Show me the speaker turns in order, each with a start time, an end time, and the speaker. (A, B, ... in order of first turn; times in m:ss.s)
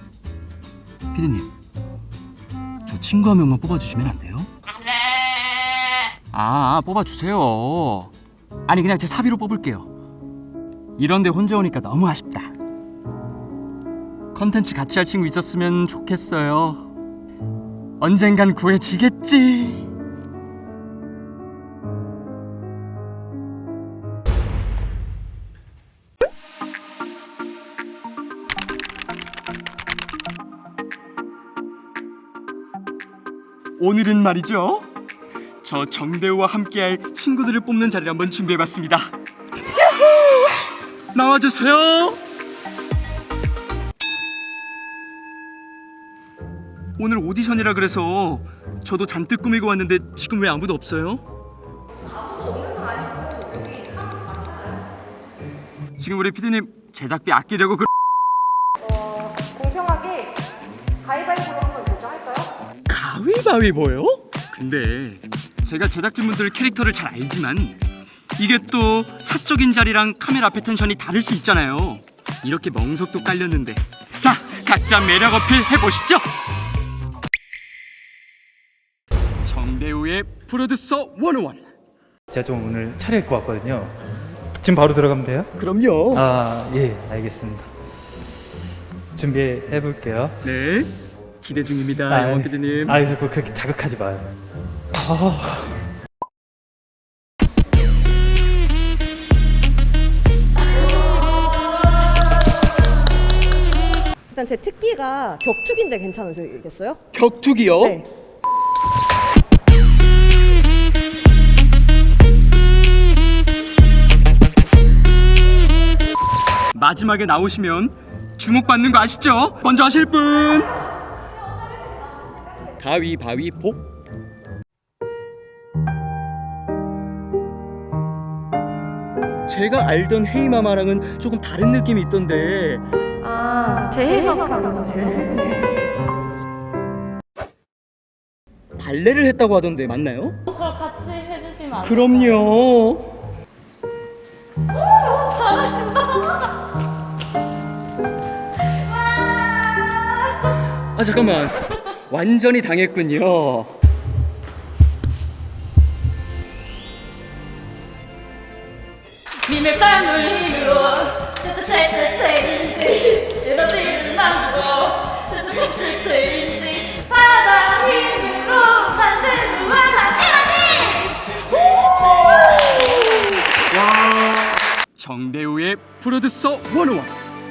0:01.1-0:01.5 A
0:02.9-0:04.5 A
0:06.3-0:08.1 A
0:08.6-0:09.9 A
0:11.0-0:12.6 A
0:14.3-0:16.8 A
0:18.0-0:19.9 A
0:33.8-0:34.9 A
0:35.6-0:39.1 A
0:39.7-0:40.6 A
0:41.1-0:42.2 A
0:47.0-0:51.2 A
0:52.0-0:54.8 B
0:56.0-0:57.9 A
0:58.8-1:00.4 B
1:01.0-1:02.5 B
1:02.9-1:16.3 A
1:19.4-1:21.6 A
1:22.3-1:24.0 C
1:24.6-1:25.5 C
1:25.6-1:26.3 A
1:26.1-1:27.7 C
1:29.2-1:30.4 C
1:30.4-1:33.0 A
1:32.1-1:34.3 C
1:34.9-1:35.8 C
1:44.3-1:47.0 B
1:47.1-1:48.0 A
1:47.7-1:48.1 B
1:56.7-2:00.7 A
2:02.6-2:03.8 A
2:09.5-2:12.8 A
2:13.4-2:14.6 D
2:13.6-2:15.7 B
2:18.8-2:20.4 A
2:20.5-2:22.4 D
2:21.8-2:23.1 A
2:24.9-2:26.5 D
2:29.0-2:30.0 D
2:30.9-2:33.7 A
2:39.4-2:51.3 D
2:51.4-2:52.2 A
2:53.5-2:57.2 A